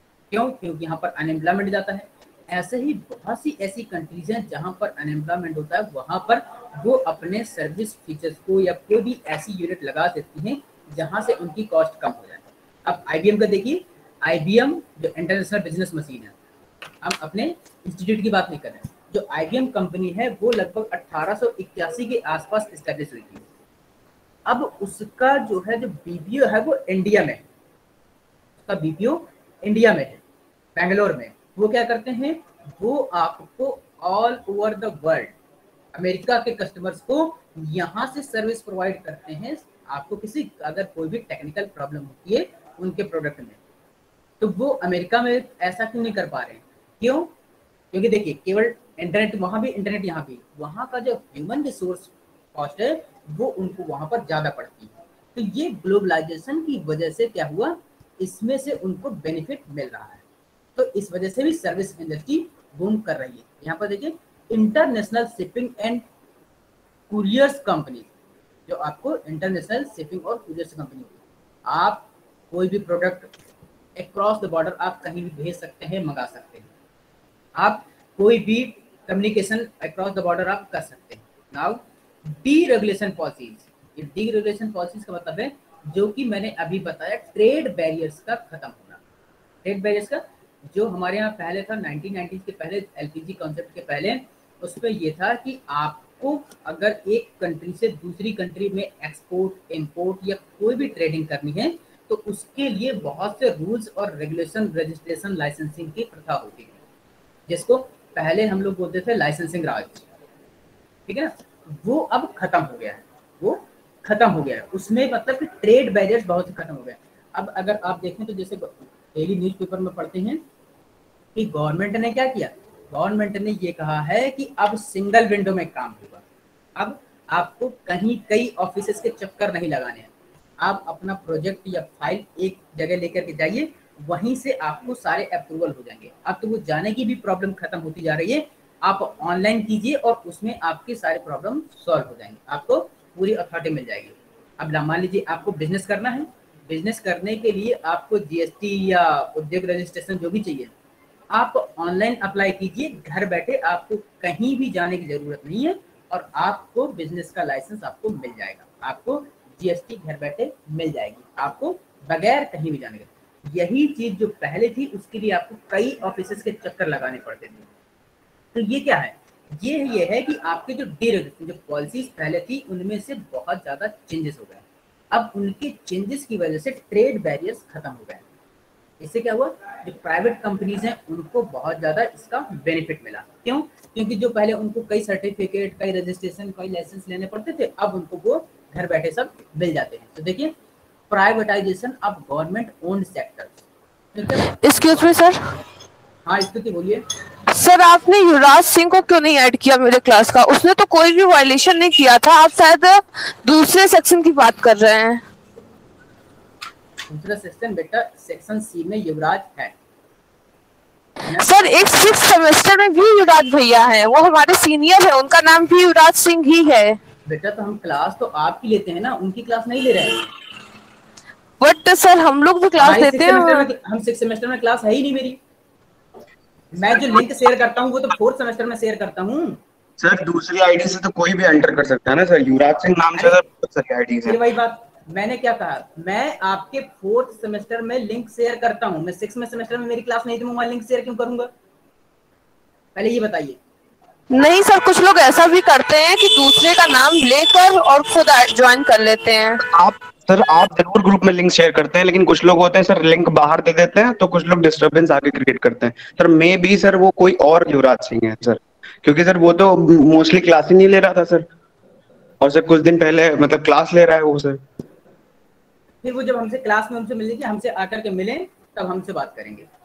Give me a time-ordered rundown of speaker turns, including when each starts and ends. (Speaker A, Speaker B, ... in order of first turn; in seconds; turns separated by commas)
Speaker A: 0.3-16.3, Speaker A: 17.0-23.4, Speaker A: 24.4-27.4, Speaker A: 28.7-30.2, Speaker A: 30.8-35.3, Speaker A: 35.9-43.6, Speaker A: 44.4-47.3, Speaker A: 47.9-60.2, Speaker A: 60.8-66.0, Speaker A: 67.1-68.1, Speaker A: 68.7-73.3, Speaker A: 74.0-76.7, Speaker A: 77.5-89.0, Speaker A: 89.6-106.8, Speaker A: 107.5-110.1, Speaker A: 111.1-120.4, Speaker A: 121.3-126.2, Speaker A: 126.8-150.7, Speaker A: 151.3-167.7, Speaker A: 168.5-178.2, Speaker A: 179.0-190.5, Speaker A: 191.1-193.5, Speaker A: 194.1-194.5, Speaker B: 194.3-195.4, Speaker A: 196.2-197.0, Speaker B: 197.5-205.2, Speaker A: 207.1-209.7, Speaker B: 211.3-217.0, Speaker A: 217.2-220.2, Speaker B: 221.6-223.7, Speaker A: 222.8-225.4, Speaker A: 226.7-229.6, Speaker C: 230.0-234.4, Speaker A: 234.2-241.5, Speaker A: 242.9-243.6, Speaker B: 244.3-249.6, Speaker C: 249.6-261.5, Speaker C: 262.4-264.6, Speaker A: 266.0-269.6